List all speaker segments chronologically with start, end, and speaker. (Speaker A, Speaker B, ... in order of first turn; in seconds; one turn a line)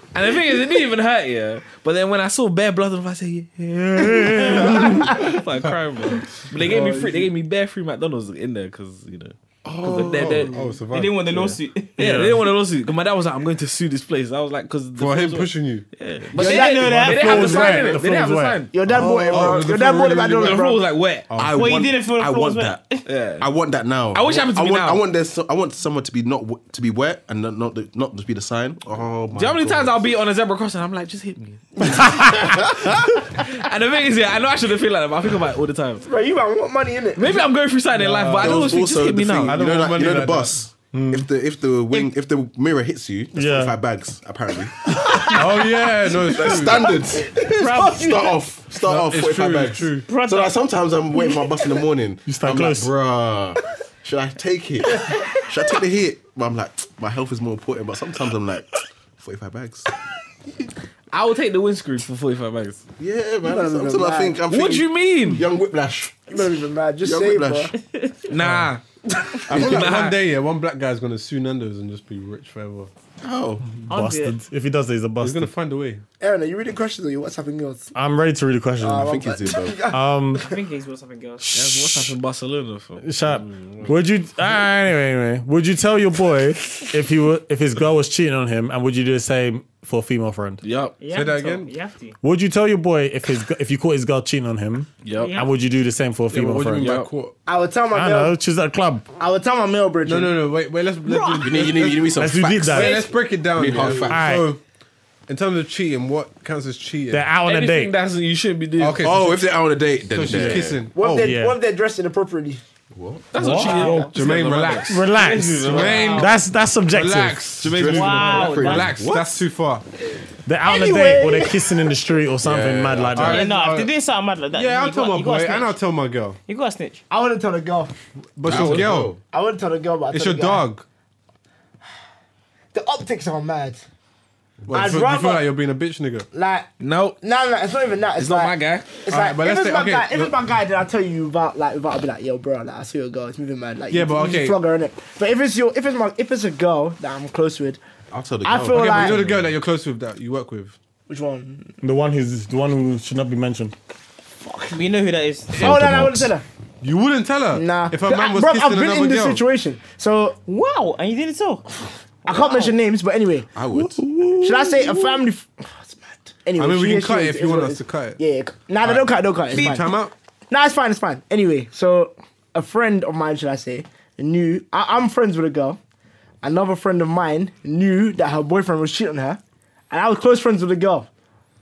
Speaker A: 0.1-10.6
Speaker B: 4.0-5.1
Speaker C: 4.5-5.3
Speaker C: 6.6-7.3
Speaker D: 9.7-11.5
Speaker E: 10.9-12.2
Speaker A: 11.3-19.7
Speaker B: 12.0-12.4
Speaker D: 15.0-15.9
Speaker E: 16.3-17.8
Speaker C: 16.4-17.9
Speaker B: 17.0-18.6
Speaker C: 18.7-20.9
Speaker D: 18.9-20.7
Speaker A: 20.4-21.3
Speaker D: 21.3-21.9
Speaker F: 21.3-22.9
Speaker E: 21.5-23.1
Speaker A: 23.1-23.5
Speaker F: 23.4-30.0
Speaker A: 24.1-25.0
Speaker A: 29.3-36.0
Speaker C: 36.0-37.4
Speaker A: 37.2-39.6
Speaker D: 37.9-38.8
Speaker F: 38.4-44.8
Speaker D: 39.5-40.7
Speaker B: 40.9-41.3
Speaker B: 43.3-43.8
Speaker C: 45.1-45.7
Speaker D: 45.3-47.0
Speaker F: 46.2-58.7
Speaker C: 46.6-48.4
Speaker E: 47.6-48.2
Speaker D: 48.7-50.1
Speaker E: 50.0-50.6
Speaker B: 52.3-52.9
Speaker C: 55.0-55.4
Speaker F: 59.2-59.9
Speaker A: 61.1-62.8
Speaker F: 63.0-66.4
Speaker C: 63.4-64.4
Speaker A: 64.5-65.5
Speaker C: 66.3-67.7
Speaker F: 67.0-67.7
Speaker E: 67.8-68.3
Speaker A: 68.3-68.8
Speaker B: 68.4-68.7
Speaker C: 69.2-69.5
Speaker A: 69.5-70.2
Speaker D: 69.5-72.9
Speaker F: 69.5-69.8
Speaker F: 73.2-73.7
Speaker B: 73.8-75.5
Speaker E: 73.9-74.4
Speaker D: 75.2-76.0
Speaker C: 76.2-77.9
Speaker B: 77.9-79.1
Speaker C: 78.8-80.5
Speaker F: 78.9-79.9
Speaker B: 79.9-80.4
Speaker E: 80.4-81.5
Speaker B: 81.4-82.2
Speaker A: 81.5-83.9
Speaker B: 83.0-90.6
Speaker A: 90.6-91.0
Speaker E: 91.0-92.2
Speaker D: 91.1-91.7
Speaker B: 92.2-96.9
Speaker A: 95.0-95.4
Speaker E: 95.2-95.5
Speaker D: 96.3-97.3
Speaker A: 96.8-97.1
Speaker C: 97.5-98.4
Speaker B: 97.9-99.1
Speaker C: 99.2-100.4
Speaker D: 100.0-102.1
Speaker E: 101.1-101.7
Speaker F: 101.4-104.3
Speaker B: 102.2-103.1
Speaker D: 102.7-104.6
Speaker B: 104.0-104.5
Speaker D: 105.3-107.3
Speaker B: 107.1-107.9
Speaker A: 107.5-109.1
Speaker D: 108.8-109.6
Speaker F: 109.0-110.8
Speaker D: 110.1-111.4
Speaker B: 110.3-110.7
Speaker C: 110.9-112.6
Speaker B: 111.2-111.6
Speaker F: 112.9-113.4
Speaker A: 113.3-116.3
Speaker B: 113.4-114.3
Speaker C: 113.6-114.1
Speaker D: 114.1-115.0
Speaker B: 114.9-117.4
Speaker D: 115.7-116.3
Speaker E: 115.8-116.3
Speaker D: 116.9-119.8
Speaker A: 117.6-118.8
Speaker F: 117.6-119.4
Speaker E: 117.9-118.9
Speaker B: 120.5-123.4
Speaker C: 120.7-121.9
Speaker F: 122.4-123.3
Speaker D: 123.2-123.9
Speaker E: 123.2-125.8
Speaker D: 124.5-126.4
Speaker E: 126.5-127.0
Speaker C: 127.1-127.9
Speaker D: 128.4-129.2
Speaker F: 128.4-129.2
Speaker C: 129.2-130.6
Speaker D: 130.1-130.8
Speaker C: 132.7-133.8
Speaker D: 134.7-136.3
Speaker C: 134.7-135.5
Speaker C: 136.3-136.7
Speaker A: 136.8-137.2
Speaker C: 137.2-147.8
Speaker A: 138.2-138.9
Speaker D: 139.1-140.4
Speaker D: 143.9-144.6
Speaker F: 148.1-149.5
Speaker C: 148.4-149.2
Speaker D: 148.7-150.8
Speaker C: 151.1-151.7
Speaker B: 151.8-153.7
Speaker C: 154.4-154.8
Speaker E: 154.7-155.7
Speaker D: 155.5-156.0
Speaker C: 155.6-156.4
Speaker D: 156.8-159.4
Speaker C: 157.5-160.4
Speaker E: 160.5-161.7
Speaker E: 162.2-162.8
Speaker C: 162.2-163.5
Speaker F: 163.5-164.0
Speaker B: 163.8-165.0
Speaker C: 164.3-169.9
Speaker D: 166.6-168.2
Speaker D: 168.8-170.1
Speaker E: 169.5-169.9
Speaker C: 170.5-175.8
Speaker C: 176.4-181.1